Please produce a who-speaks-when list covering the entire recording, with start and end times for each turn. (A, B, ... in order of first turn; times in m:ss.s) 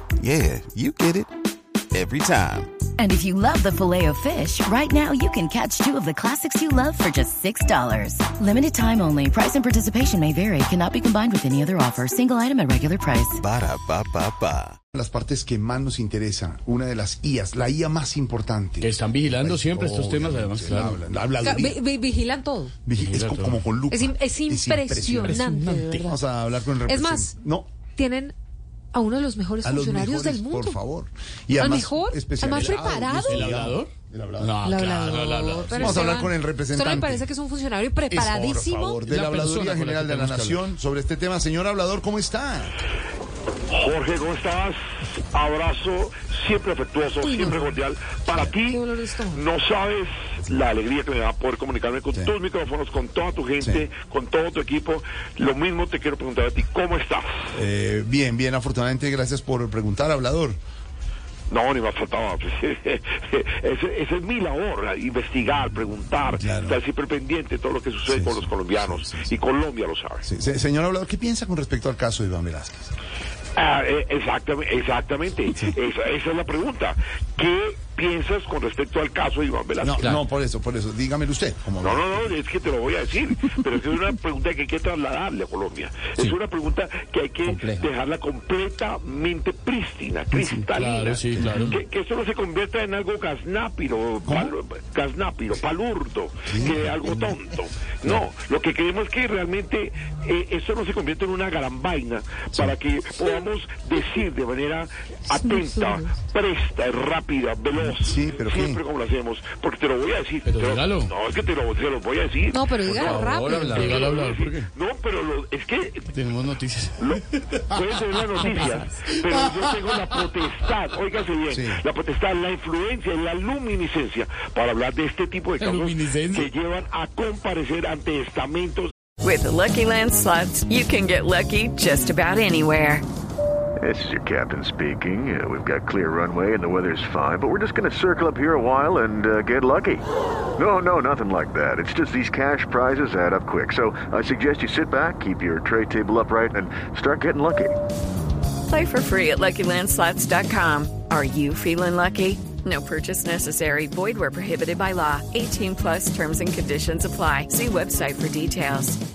0:00.2-0:01.3 A
0:01.9-0:02.8 A
0:03.0-0:13.4 B
0:13.4-0:14.8 A
0:14.9-0:21.8 C
0:18.8-0:21.0 D
0:21.4-0:22.8 E
0:22.8-0:27.7 C
0:22.9-0:23.6 D
0:23.9-0:26.1 E
0:26.9-0:27.3 E
0:28.0-0:28.3 E
0:28.9-0:30.8 E
0:29.6-0:35.1 C
0:31.6-0:33.4 E
0:33.2-0:36.0 D
0:34.6-0:39.1 E
0:35.7-0:37.3 C
0:38.1-0:42.8 C
0:39.1-0:40.7 D
0:43.7-0:57.6 F
0:47.2-0:47.7 E
0:48.6-0:49.4 E
0:53.6-0:53.9 C
0:57.5-1:00.6 C
1:01.5-1:10.2 F
1:06.3-1:06.8 C
1:08.1-1:09.3 C
1:10.2-1:12.9 C
1:13.6-1:20.1 F
1:19.8-1:22.4 C
1:21.8-1:56.2 F
1:30.7-1:31.7 D
1:31.3-1:31.7 C
1:34.2-1:34.5 C
1:36.5-1:36.8 C
1:45.3-1:46.1 E
1:47.9-1:48.8 C
1:50.5-1:51.1 D
1:52.5-1:54.0 E
1:52.9-1:54.7 D
1:56.1-1:57.8 D
1:57.0-2:08.9 F
1:58.4-2:00.1 D
2:01.5-2:01.8 C
2:05.6-2:06.5 D
2:09.2-2:13.0 G
2:13.8-2:20.0 H
2:20.6-2:27.8 H
2:28.7-2:39.0 G